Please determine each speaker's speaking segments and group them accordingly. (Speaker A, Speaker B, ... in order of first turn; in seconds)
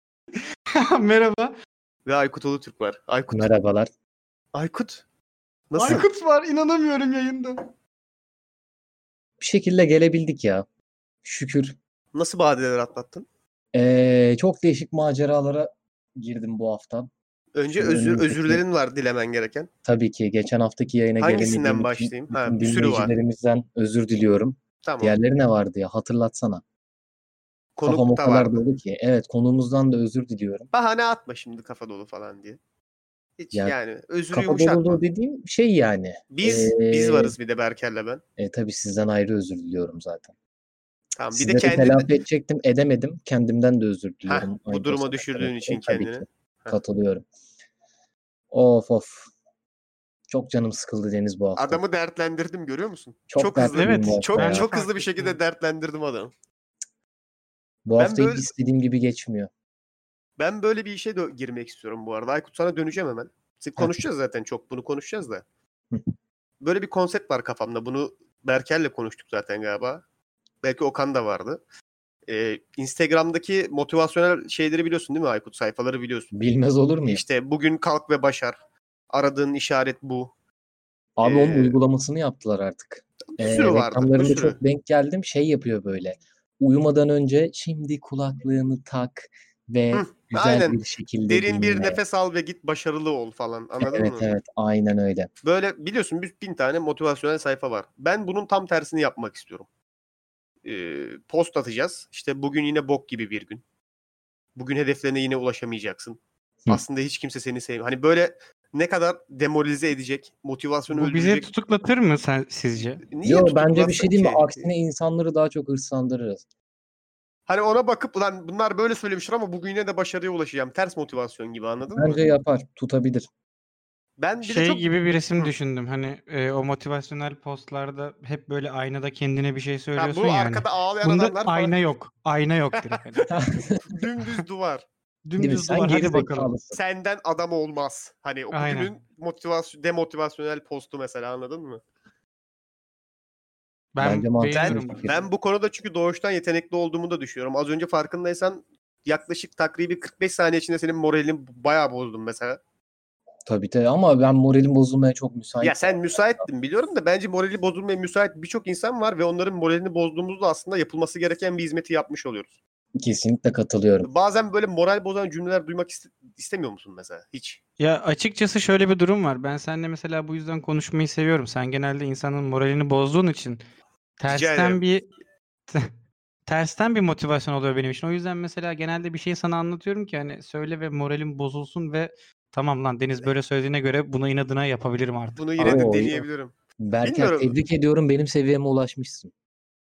Speaker A: 0.7-1.5, 5.8-7.6, 53.7-55.4, 110.9-113.0, 124.4-133.3, 135.2-136.5, 138.5-138.9, 143.9-145.1, 167.8-173.6, 174.2-175.1, 176.5-186.0
Speaker B: 2.0-3.5, 4.5-5.0, 5.7-6.0, 12.1-13.2, 17.6-19.7, 21.2-23.1, 24.8-25.1, 27.8-28.6, 30.7-32.6, 33.4-35.0, 36.3-38.2, 41.1-42.1, 44.3-46.8, 51.5-56.3, 58.0-58.5, 60.4-65.4, 66.6-70.0, 70.6-71.6, 72.3-76.3, 77.1-78.5, 79.1-80.3, 81.2-81.8, 83.4-84.6, 89.9-94.3, 95.4-99.7, 100.6-103.6, 104.5-111.5, 113.1-114.6, 117.5-122.2, 124.2-124.9, 130.0-131.7, 132.9-134.8, 136.7-141.8, 144.5-152.6, 155.6-162.5, 164.0-167.6, 174.3-174.8, 185.4-187.5
Speaker C: 3.3-3.9, 9.4-10.6, 11.2-11.8, 13.7-17.1, 17.8-18.6, 19.9-26.6, 27.8-30.7, 34.3-37.3, 38.4-40.3, 41.3-47.2, 48.5-49.3, 50.3-51.8, 53.3-54.7, 57.9-59.5, 76.3-77.2, 81.2-92.0, 93.8-95.3, 113.2-116.4, 121.9-123.3, 133.3-134.1, 135.4-136.8, 144.0-145.2, 153.4-155.9, 163.0-164.1, 185.6-186.2, 186.8-189.3